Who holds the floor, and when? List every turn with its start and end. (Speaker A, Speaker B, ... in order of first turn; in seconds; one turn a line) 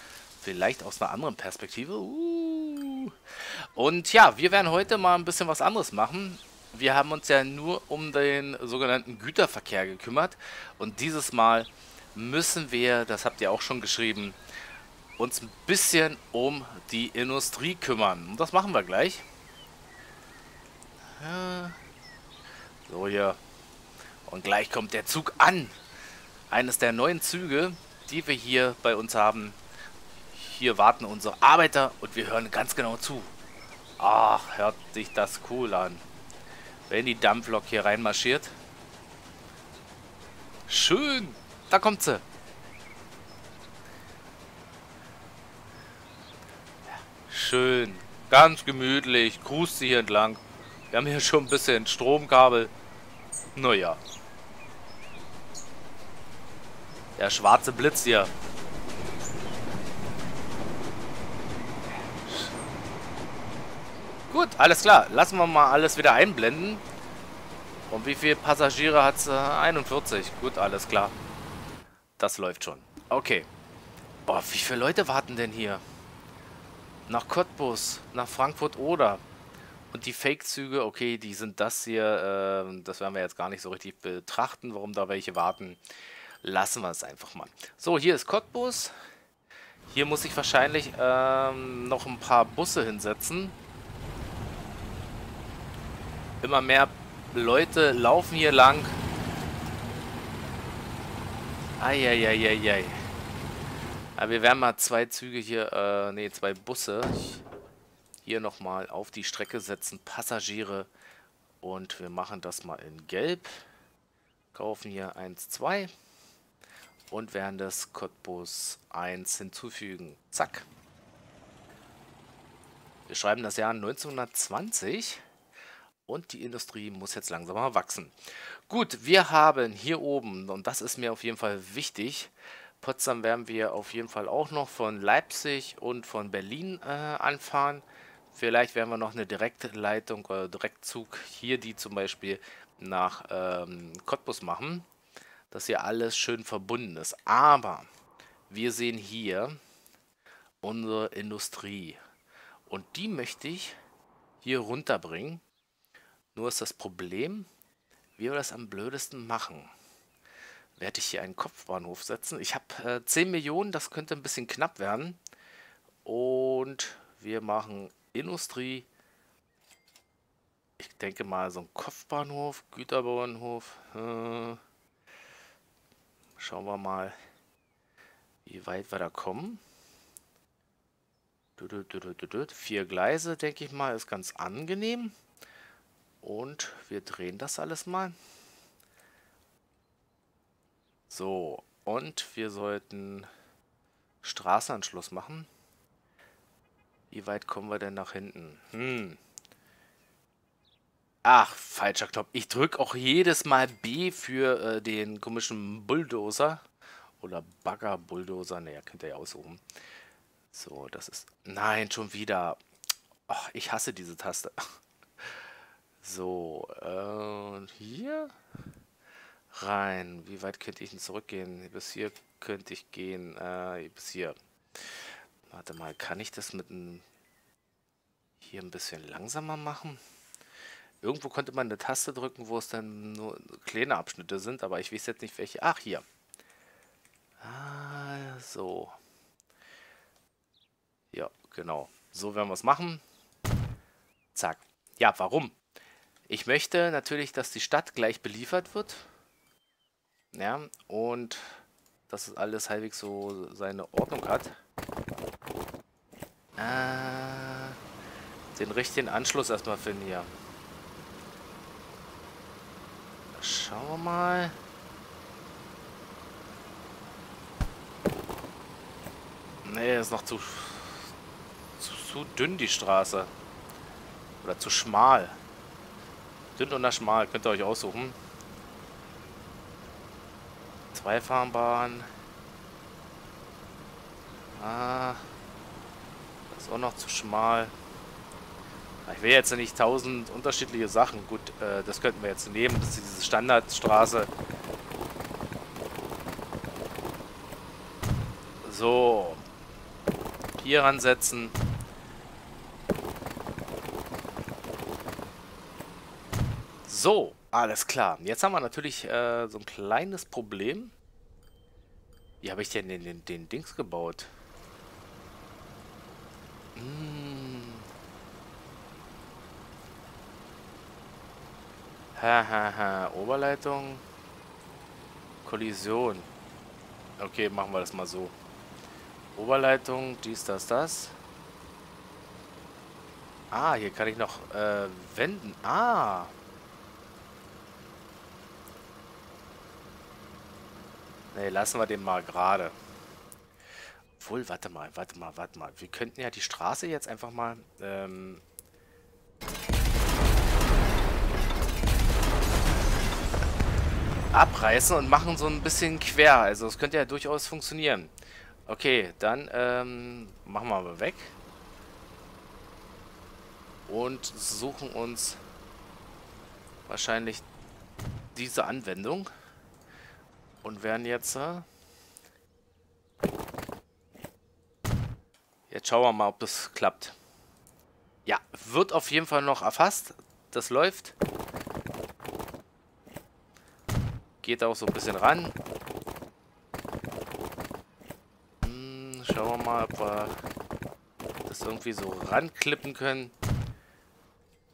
Speaker A: 0.4-3.1
Speaker A: 3.8-14.4
Speaker A: 15.2-19.2
Speaker A: 21.2-21.8
Speaker A: 22.9-23.4
Speaker A: 24.3-25.8
Speaker A: 26.5-29.6
Speaker A: 30.3-33.3
Speaker A: 34.0-36.0
Speaker A: 36.9-38.6
Speaker A: 40.7-42.2
Speaker A: 47.2-52.7
Speaker A: 53.5-54.0
Speaker A: 57.2-58.3
Speaker A: 62.2-62.5
Speaker A: 64.3-66.8
Speaker A: 67.9-71.2
Speaker A: 72.2-73.5
Speaker A: 74.3-75.8
Speaker A: 77.1-79.2
Speaker A: 79.9-85.8
Speaker A: 86.4-88.9
Speaker A: 89.9-93.6
Speaker A: 96.4-99.0
Speaker A: 101.8-103.1
Speaker A: 104.2-107.5
Speaker A: 108.2-110.9
Speaker A: 111.6-113.7
Speaker A: 114.5-115.9
Speaker A: 117.1-120.7
Speaker A: 123.1-125.2
Speaker A: 126.1-144.9
Speaker A: 145.5-147.9
Speaker A: 148.5-149.6
Speaker A: 150.6-152.0
Speaker A: 152.7-153.8
Speaker A: 154.4-155.4
Speaker A: 156.3-157.5
Speaker A: 158.2-159.7
Speaker A: 160.8-165.2
Speaker A: 166.1-168.9
Speaker A: 170.8-174.6
Speaker A: 176.4-177.2
Speaker A: 178.4-179.6
Speaker A: 181.6-185.1
Speaker A: 186.2-188.2
Speaker A: 191.1-193.3
Speaker A: 194.2-195.5
Speaker A: 197.1-199.2
Speaker A: 201.2-206.6
Speaker A: 207.2-209.6
Speaker A: 210.5-212.6
Speaker A: 213.3-214.6
Speaker A: 216.0-218.3
Speaker A: 219.5-227.1
Speaker A: 228.4-230.0
Speaker A: 231.0-236.1
Speaker A: 237.4-238.9
Speaker A: 241.1-243.0
Speaker A: 244.3-245.6
Speaker A: 246.3-249.1
Speaker A: 250.3-254.6
Speaker A: 256.6-257.8
Speaker A: 258.5-260.3
Speaker A: 263.4-264.6
Speaker A: 269.6-271.1
Speaker A: 271.8-273.3
Speaker A: 274.4-275.4
Speaker A: 276.6-278.2
Speaker A: 280.9-282.1
Speaker A: 284.6-285.3
Speaker A: 286.5-287.7
Speaker A: 289.1-294.3
Speaker A: 298.6-299.4
Speaker A: 300.6-301.6
Speaker A: 306.9-310.9
Speaker A: 312.4-314.3
Speaker A: 316.8-317.9
Speaker A: 322.1-324.0
Speaker A: 325.4-326.3
Speaker A: 327.2-328.4
Speaker A: 329.4-331.2
Speaker A: 333.5-336.3
Speaker A: 341.3-342.8
Speaker A: 344.2-348.4
Speaker A: 354.3-358.1
Speaker A: 358.7-361.4
Speaker A: 363.9-365.4
Speaker A: 366.9-367.4
Speaker A: 368.3-369.3
Speaker A: 370.6-371.7
Speaker A: 375.7-377.2
Speaker A: 378.3-381.1
Speaker A: 384.4-385.6
Speaker A: 388.6-390.4
Speaker A: 391.5-393.3